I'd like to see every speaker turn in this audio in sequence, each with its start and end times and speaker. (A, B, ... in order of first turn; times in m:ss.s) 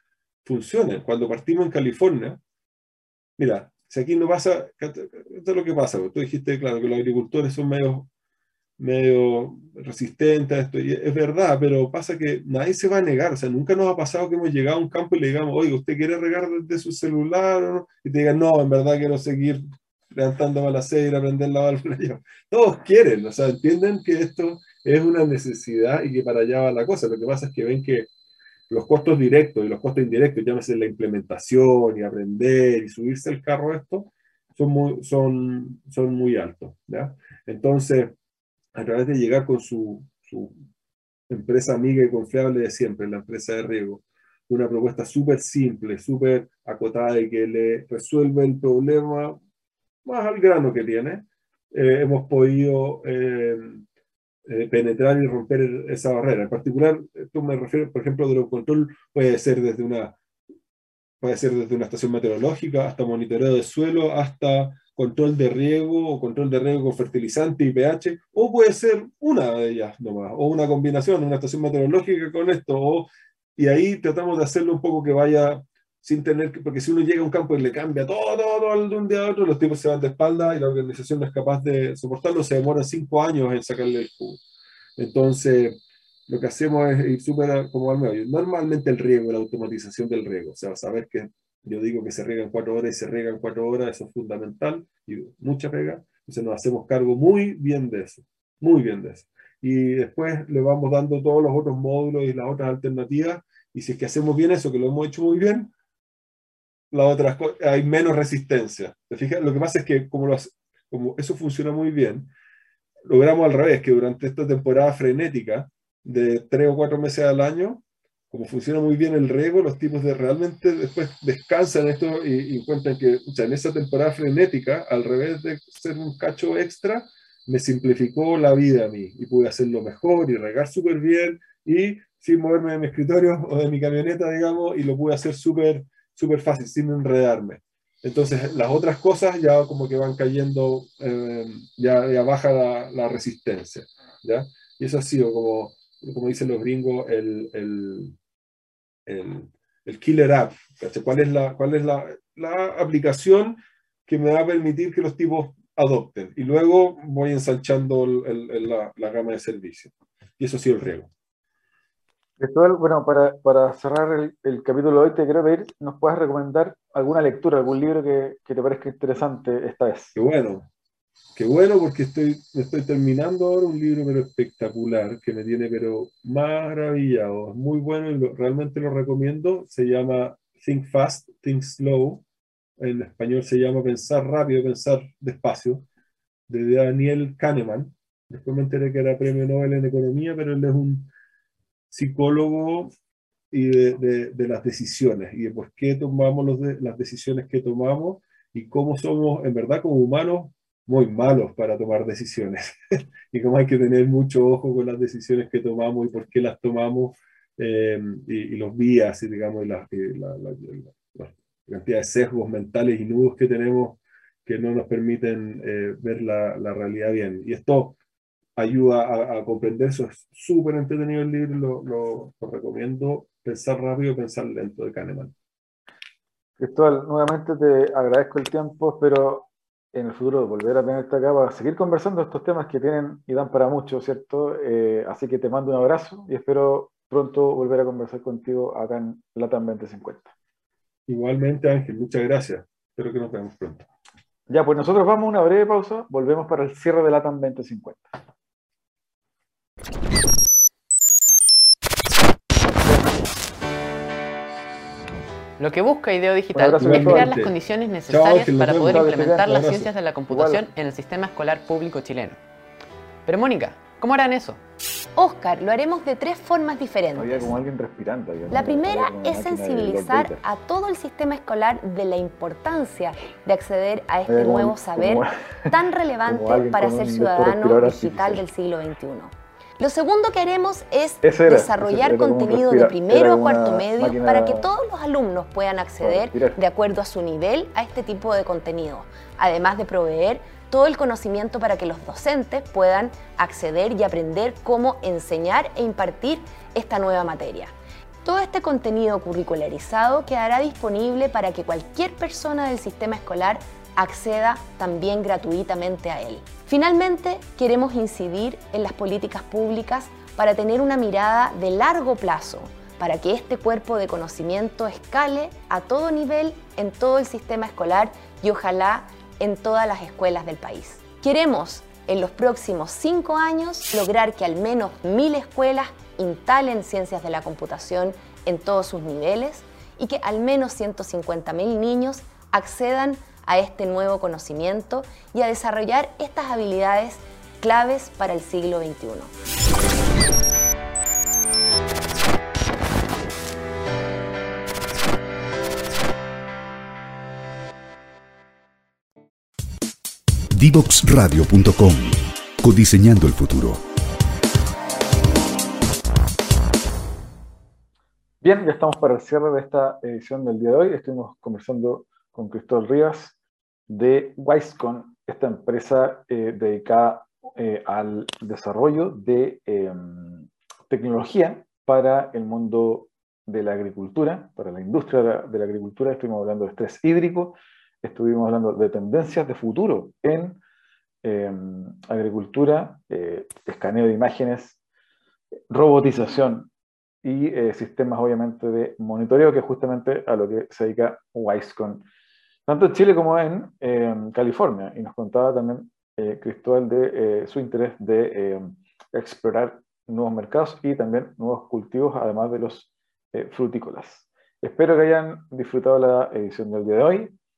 0:00.4-0:02.4 A
0:03.4-0:08.1 A
0:08.8-0:28.1 A
0:28.7-0:38.1 A
0:38.8-0:40.6 A
0:41.3-0:49.4 A
0:50.0-0:53.8 A
0:54.5-1:00.2 A
1:01.2-1:24.4 A
1:25.0-1:45.7 A
1:46.9-1:52.3 A
1:53.1-2:28.2 A
2:29.1-2:41.1 A
2:42.4-2:50.2 B
2:50.2-2:50.7 A
2:51.4-3:02.2 A
3:02.8-3:05.9 A
3:06.5-3:11.1 A
3:11.9-3:12.9 A
3:13.5-3:38.0 A
3:38.6-3:45.3 A
3:46.6-4:00.3 B
4:01.1-4:03.9 A
4:04.5-4:08.1 B
4:15.6-4:22.4 C
4:16.5-4:17.4 B
4:16.8-4:17.6 A
4:18.1-4:19.9 A
4:18.8-4:19.6 B
4:20.3-4:20.7 B
4:23.3-4:24.6 C
4:25.2-4:27.5 D
4:27.2-4:30.4 B
4:28.5-4:57.7 D
4:34.3-4:35.7 B
4:36.2-4:38.4 B
4:41.2-4:44.7 B
4:46.0-4:46.6 B
4:58.2-5:39.3 D
5:50.5-5:53.8 E
5:58.4-6:03.4 B
6:03.9-6:20.6 B
6:21.2-6:24.8 B
6:25.7-6:26.7 B
6:27.2-6:32.1 B
6:32.7-6:47.3 B